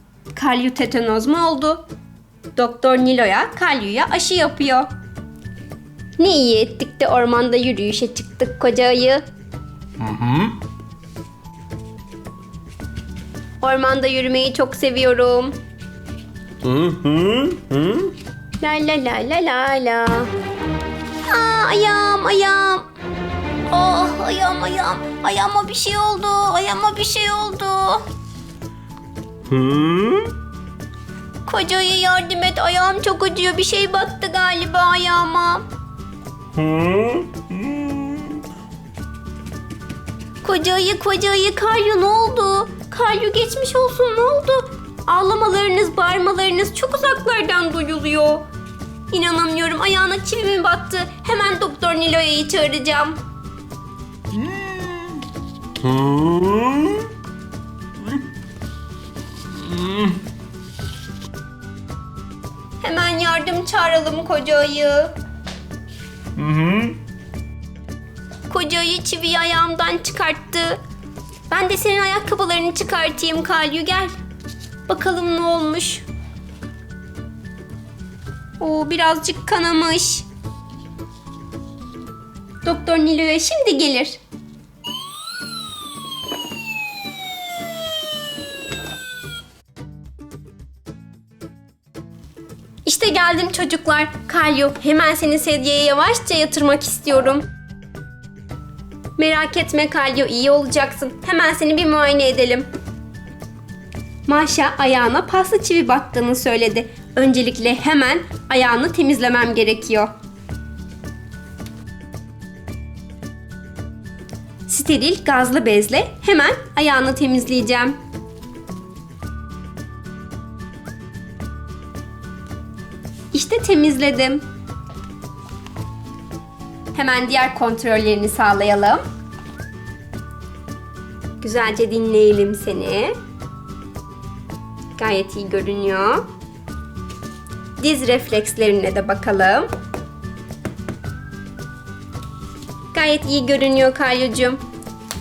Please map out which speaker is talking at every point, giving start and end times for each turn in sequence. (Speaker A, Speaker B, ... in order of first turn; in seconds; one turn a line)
Speaker A: 0.3-1.8
Speaker A: 2.5-4.9
Speaker A: 6.2-9.2
Speaker B: 10.0-10.5
Speaker A: 13.6-15.6
Speaker B: 16.6-18.1
Speaker A: 18.6-20.3
Speaker A: 21.2-22.9
Speaker A: 23.7-28.0
Speaker B: 29.5-30.3
Speaker A: 31.4-35.6
Speaker B: 36.5-38.3
Speaker A: 40.4-48.5
Speaker A: 49.1-53.2
Speaker B: 55.8-57.0
Speaker B: 59.6-60.1
Speaker A: 62.8-65.1
Speaker B: 66.3-67.0
Speaker A: 68.5-70.8
Speaker A: 71.5-74.1
Speaker A: 74.9-76.0
Speaker A: 78.6-80.2
Speaker A: 82.6-84.2
Speaker A: 92.8-97.5
Speaker A: 99.2-102.7
Speaker A: 104.3-110.1
Speaker A: 114.7-118.0
Speaker A: 123.3-124.4
Speaker A: 126.9-129.0
Speaker A: 131.4-133.1
Speaker A: 134.9-136.3
Speaker A: 137.8-139.7
Speaker A: 142.9-144.6